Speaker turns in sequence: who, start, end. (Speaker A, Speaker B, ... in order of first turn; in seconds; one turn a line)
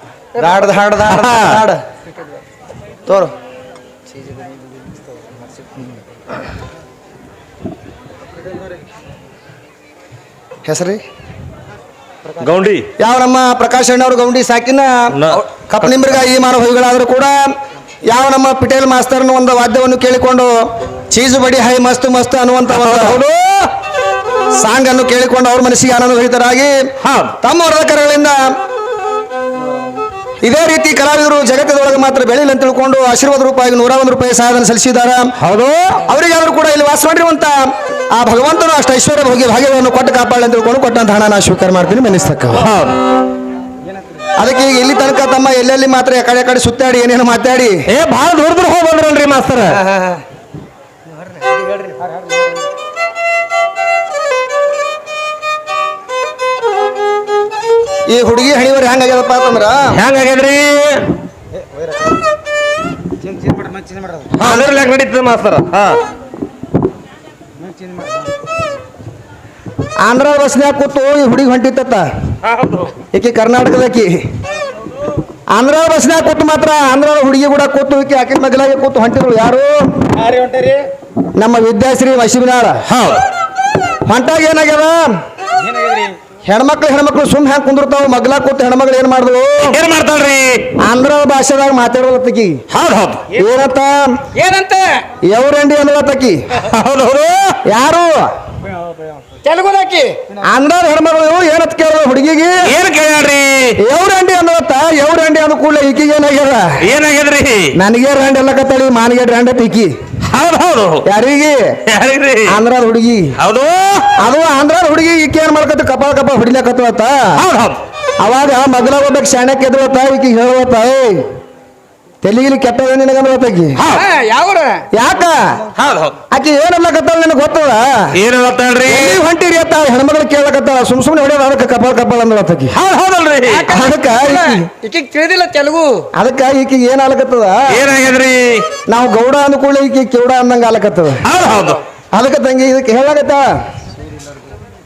Speaker A: 0.3-1.8
Speaker B: 1.0-1.6
Speaker A: 3.1-3.3
Speaker A: 10.7-11.0
Speaker B: 12.4-12.9
Speaker A: 13.0-17.5
Speaker B: 15.1-15.4
Speaker A: 18.1-23.2
Speaker B: 22.7-23.7
Speaker A: 24.6-26.8
Speaker B: 27.0-27.4
Speaker A: 27.4-28.5
Speaker A: 30.4-35.3
Speaker B: 35.4-36.0
Speaker A: 36.1-42.7
Speaker B: 42.5-43.0
Speaker A: 44.4-47.8
Speaker B: 47.9-49.8
Speaker A: 49.7-50.2
Speaker A: 58.1-60.0
Speaker B: 59.9-61.1
Speaker C: 63.2-64.2
Speaker B: 64.3-66.0
Speaker A: 70.0-72.1
Speaker B: 72.4-73.0
Speaker A: 73.1-74.2
Speaker A: 75.5-79.9
Speaker C: 80.2-80.9
Speaker A: 81.4-82.9
Speaker B: 82.9-83.2
Speaker A: 84.1-85.1
Speaker C: 85.7-86.2
Speaker A: 86.4-89.8
Speaker B: 89.6-90.7
Speaker A: 90.8-92.6
Speaker B: 92.7-93.3
Speaker A: 93.3-94.2
Speaker C: 94.3-94.8
Speaker A: 95.3-96.4
Speaker B: 96.6-97.6
Speaker A: 97.7-98.3
Speaker C: 99.4-100.2
Speaker A: 100.4-102.7
Speaker B: 102.7-103.8
Speaker A: 103.8-106.8
Speaker B: 106.8-107.7
Speaker A: 107.8-109.9
Speaker B: 110.3-111.0
Speaker A: 111.0-111.8
Speaker B: 111.9-112.6
Speaker A: 112.5-113.3
Speaker B: 113.4-114.1
Speaker A: 114.2-117.4
Speaker B: 117.4-117.8
Speaker A: 118.2-121.2
Speaker A: 122.2-123.8
Speaker B: 123.8-124.1
Speaker C: 124.0-124.8
Speaker A: 124.9-125.6
Speaker B: 125.7-126.2
Speaker A: 126.3-128.1
Speaker B: 128.2-129.2
Speaker A: 128.9-132.8
Speaker B: 132.7-133.7
Speaker C: 133.5-136.0
Speaker A: 133.7-134.6
Speaker A: 136.1-137.8
Speaker B: 137.7-138.7
Speaker A: 138.9-141.2
Speaker B: 141.2-141.8
Speaker A: 142.1-143.5